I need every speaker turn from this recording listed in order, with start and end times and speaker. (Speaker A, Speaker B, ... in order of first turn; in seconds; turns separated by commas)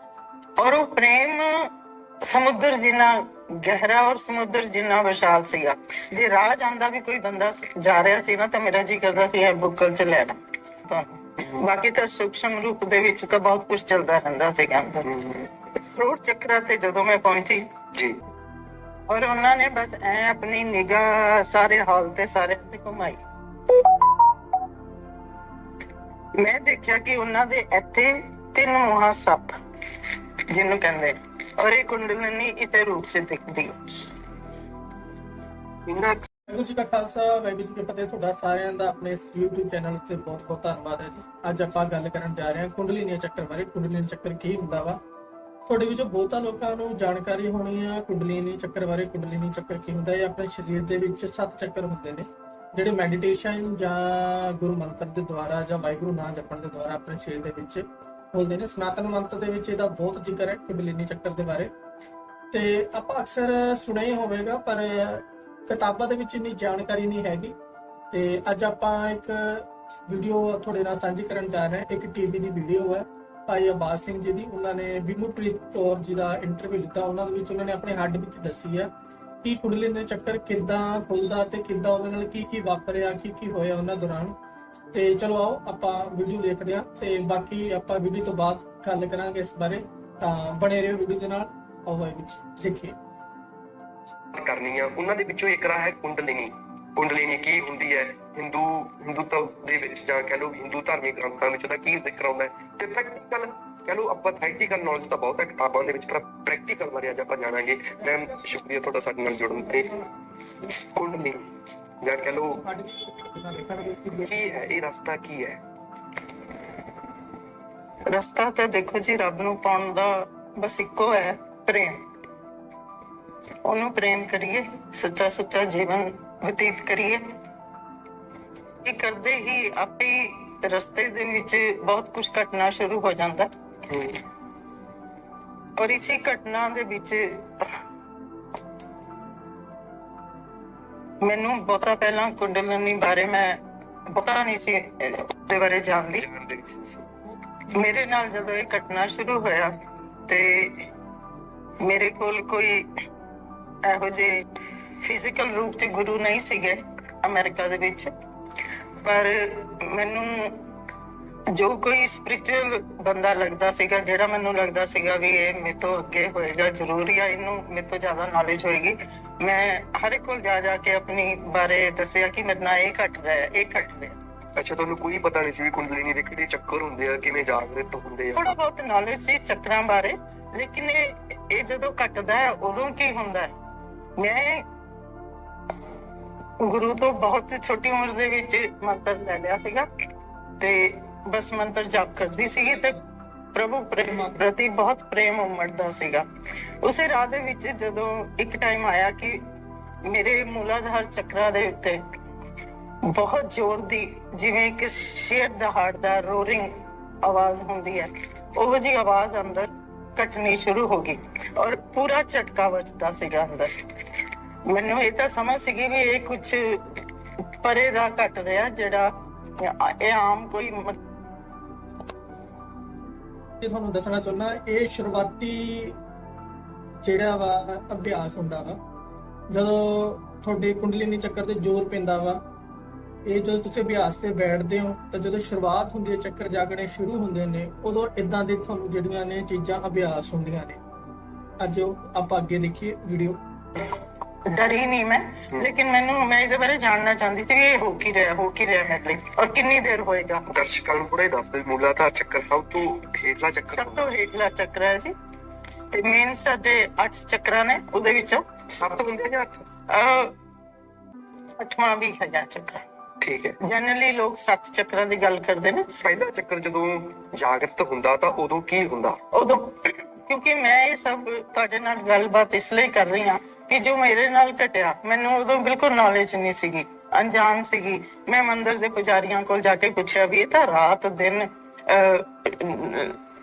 Speaker A: 0.6-1.7, Speaker A: 2.2-17.7, Speaker A: 19.1-23.2, Speaker A: 26.4-29.5, Speaker A: 30.5-33.8, Speaker B: 35.9-36.2, Speaker C: 36.5-45.0, Speaker C: 45.7-61.7, Speaker C: 62.5-67.5, Speaker C: 68.1-78.9, Speaker C: 79.4-84.3, Speaker C: 84.9-92.9, Speaker B: 94.3-110.0, Speaker B: 110.9-111.5, Speaker B: 112.0-112.6, Speaker C: 112.6-114.3, Speaker B: 114.2-115.6, Speaker A: 118.1-122.0, Speaker A: 123.6-127.2, Speaker A: 128.8-133.5, Speaker B: 133.9-134.2, Speaker A: 135.8-137.5, Speaker A: 141.2-146.2, Speaker B: 146.2-147.1, Speaker A: 147.7-149.8, Speaker A: 150.3-150.9, Speaker A: 151.8-152.9, Speaker A: 153.8-154.5, Speaker A: 155.0-158.1, Speaker A: 159.0-160.7, Speaker A: 161.5-174.2, Speaker B: 174.6-178.5, Speaker A: 178.3-183.5, Speaker A: 184.2-184.6, Speaker A: 186.6-189.9, Speaker A: 190.6-193.0, Speaker A: 193.5-196.2, Speaker A: 196.8-199.4, Speaker A: 200.0-202.0, Speaker A: 203.1-213.7, Speaker A: 214.7-217.0, Speaker A: 217.6-221.0, Speaker C: 223.6-226.0, Speaker C: 227.0-228.8, Speaker C: 229.5-232.4, Speaker C: 233.2-240.8, Speaker C: 241.6-243.4, Speaker A: 244.5-250.4, Speaker B: 250.5-254.1, Speaker A: 253.7-255.1, Speaker A: 255.9-258.5, Speaker B: 258.7-259.6, Speaker A: 259.9-260.3, Speaker A: 261.6-262.8, Speaker B: 263.2-263.6, Speaker A: 263.6-265.9, Speaker B: 266.0-269.2, Speaker A: 269.3-283.2